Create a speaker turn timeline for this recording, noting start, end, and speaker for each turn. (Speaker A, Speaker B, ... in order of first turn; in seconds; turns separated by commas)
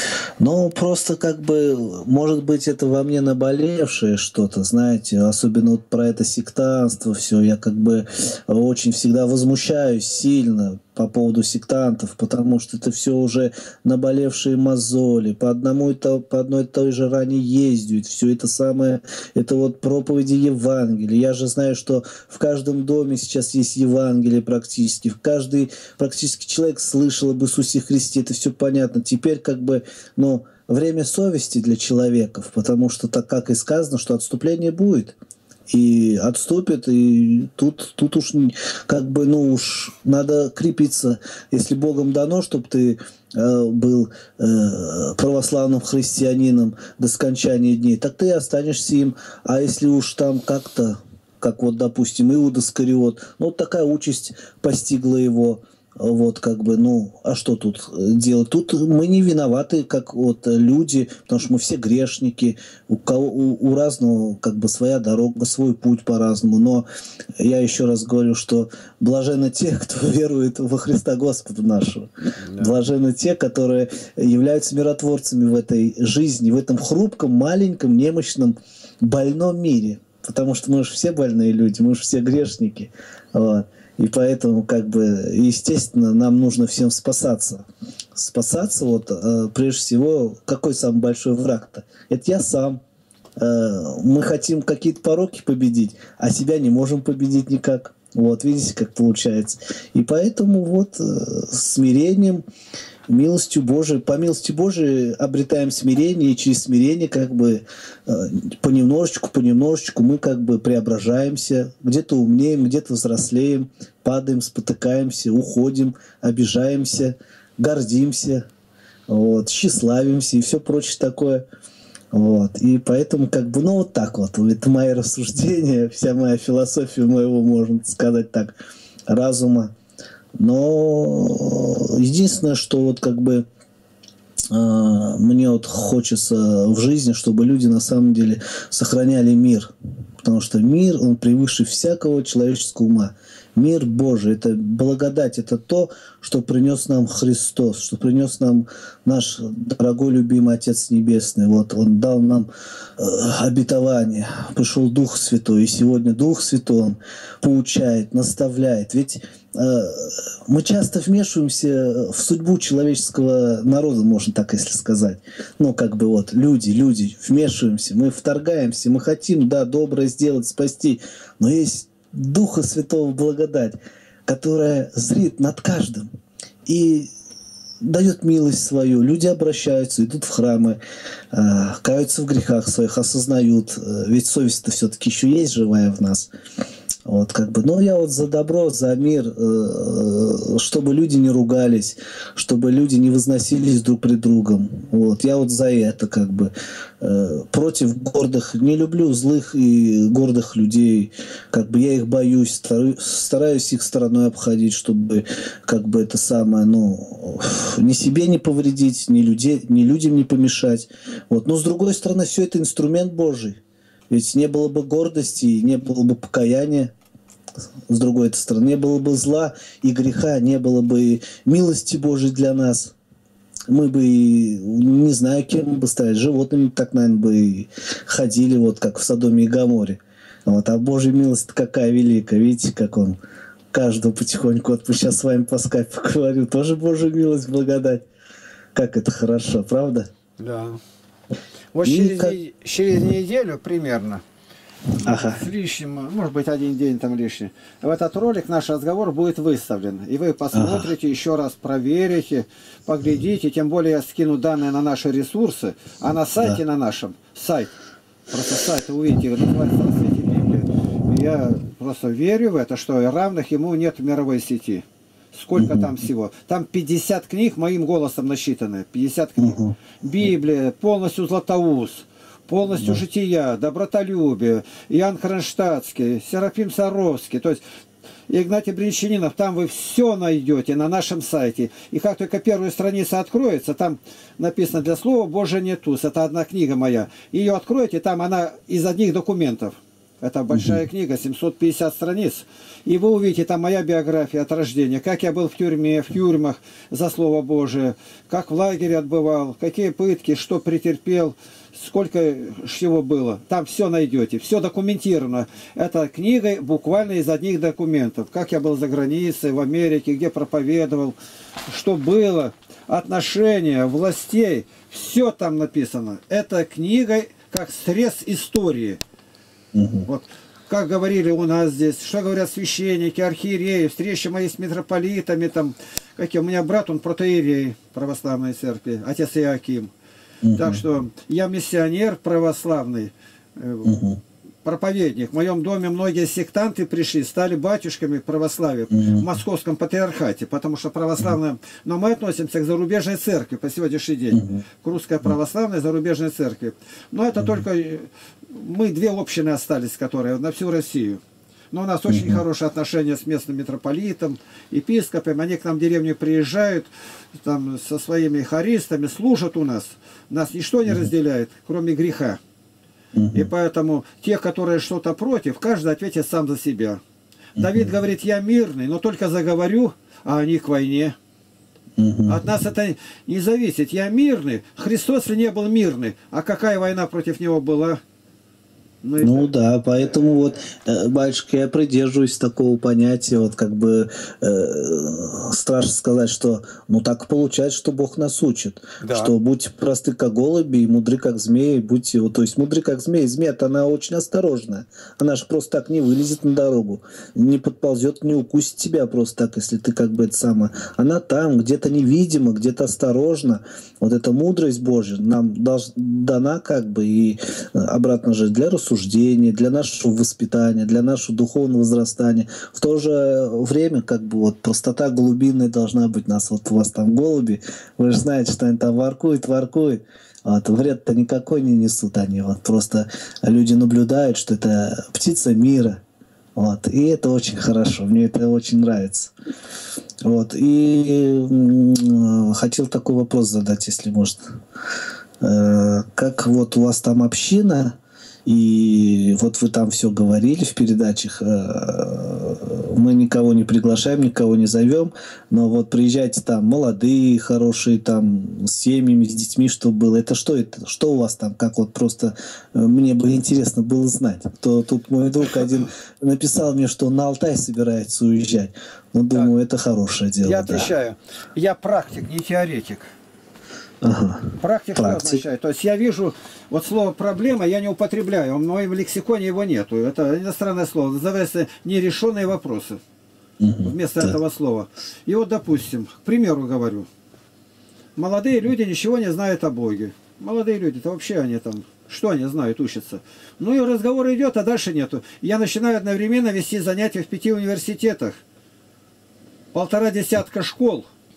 Speaker A: 0.4-35.2, Speaker A: 35.7-66.8, Speaker A: 67.4-92.8, Speaker B: 72.4-72.7, Speaker A: 93.4-102.4, Speaker A: 103.1-118.5, Speaker A: 119.1-121.4, Speaker A: 122.1-128.5, Speaker A: 129.1-129.7, Speaker A: 130.4-133.4, Speaker A: 134.5-139.7, Speaker A: 140.2-152.5, Speaker A: 153.0-176.1, Speaker A: 176.7-177.1, Speaker A: 177.8-180.8, Speaker A: 181.3-186.3, Speaker A: 187.1-213.6, Speaker A: 214.1-216.9, Speaker A: 217.9-222.9, Speaker A: 223.7-233.2, Speaker A: 233.7-238.0, Speaker A: 238.7-240.1, Speaker B: 240.4-240.8, Speaker B: 241.7-244.2, Speaker A: 241.8-242.3, Speaker B: 245.0-257.7, Speaker A: 245.1-245.4, Speaker A: 250.5-250.9, Speaker B: 258.3-277.6, Speaker A: 265.6-265.9, Speaker A: 269.4-269.7, Speaker B: 278.3-311.2, Speaker A: 290.5-290.8, Speaker B: 311.7-319.0, Speaker A: 319.7-320.1, Speaker B: 320.1-329.9, Speaker A: 330.4-330.8, Speaker B: 330.6-333.9, Speaker A: 333.9-334.2, Speaker B: 334.6-351.2, Speaker A: 338.9-339.3, Speaker A: 344.3-344.6, Speaker A: 347.4-347.6, Speaker B: 351.7-362.4, Speaker A: 352.1-352.4, Speaker A: 363.1-363.5, Speaker B: 363.3-367.0, Speaker B: 367.6-371.1, Speaker A: 367.6-367.9, Speaker A: 372.0-372.5, Speaker B: 372.3-378.0, Speaker B: 379.0-380.1, Speaker A: 379.2-426.0, Speaker B: 389.0-389.3, Speaker A: 426.6-429.3, Speaker A: 430.2-434.4, Speaker A: 435.4-460.9, Speaker B: 460.4-463.1, Speaker A: 464.0-465.4, Speaker B: 464.6-473.0, Speaker A: 473.6-474.4, Speaker B: 473.8-477.1, Speaker B: 478.2-488.4, Speaker B: 489.7-491.1